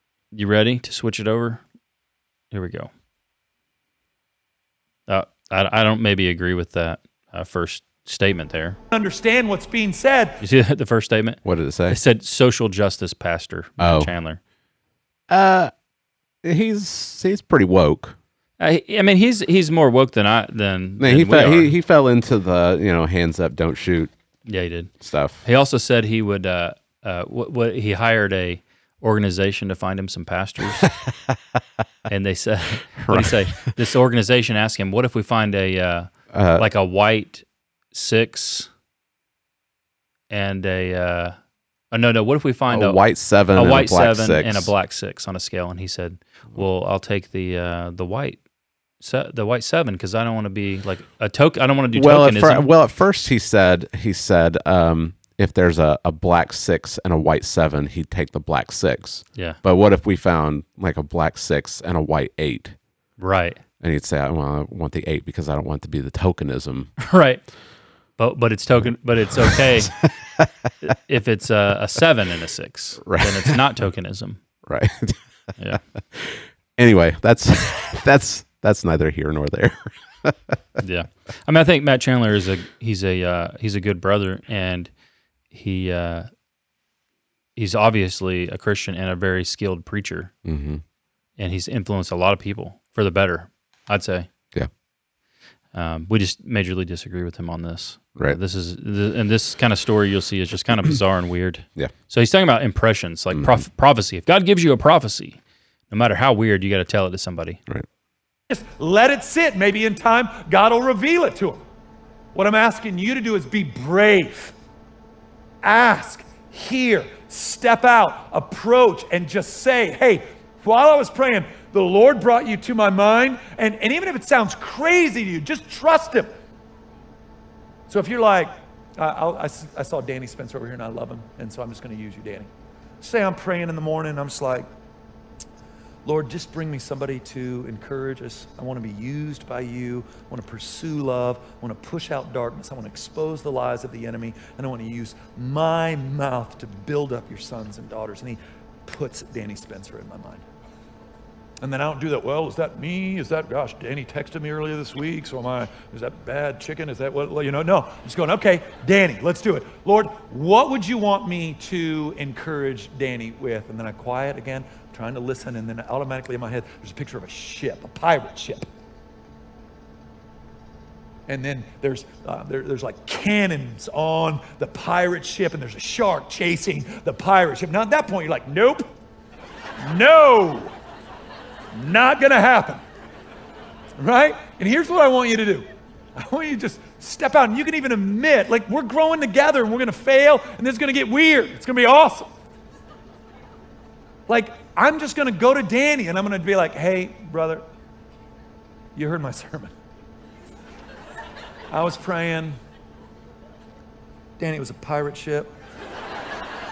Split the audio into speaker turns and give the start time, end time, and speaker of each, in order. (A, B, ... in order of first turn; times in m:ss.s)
0:00.3-0:01.6 A
0:02.5-0:02.9 A
0:05.1-0:08.8 A
0:08.9-0:10.4 B
0:10.4-0:14.4 A
0:11.4-0:12.0 C
0:13.8-0:14.1 C
0:15.3-0:15.7 C
0:16.4-0:18.2 C
0:18.6-0:21.7 A
0:21.0-0:24.1 C
0:24.4-0:24.9 A
0:25.0-0:25.4 C
0:25.4-0:30.9 A
0:32.1-0:38.7 A
0:33.0-0:33.6 C
0:36.3-0:36.6 C
0:40.3-0:41.4 A
0:41.9-0:43.0 A
0:42.7-0:44.7 C
0:43.5-0:48.4 A
0:49.0-0:52.7 A
0:51.9-1:02.8 C
1:03.2-1:03.6 A
1:03.8-1:06.9 C
1:07.0-1:07.4 A
1:08.2-1:10.0 A
1:10.8-1:14.4 A
1:13.0-1:13.6 C
1:14.6-1:15.2 C
1:16.1-1:20.6 C
1:20.8-1:24.9 A
1:25.5-1:26.3 A
1:27.6-1:30.3 A
1:30.4-1:30.8 C
1:31.4-1:34.3 A
1:35.7-1:45.4 A
1:43.3-1:43.6 C
1:45.9-1:47.6 A
1:48.5-1:51.6 B
1:52.3-1:54.5 B
1:55.6-2:06.3 B
2:07.9-2:12.5 B
2:13.0-2:14.6 B
2:16.0-2:30.4 B
2:31.6-2:48.6 B
2:51.3-2:58.9 B
2:59.8-3:00.7 B
3:01.7-3:02.8 B
3:04.0-3:12.3 B
3:14.3-3:17.6 B
3:19.0-3:19.7 B
3:21.7-3:22.6 B
3:24.4-3:25.5 B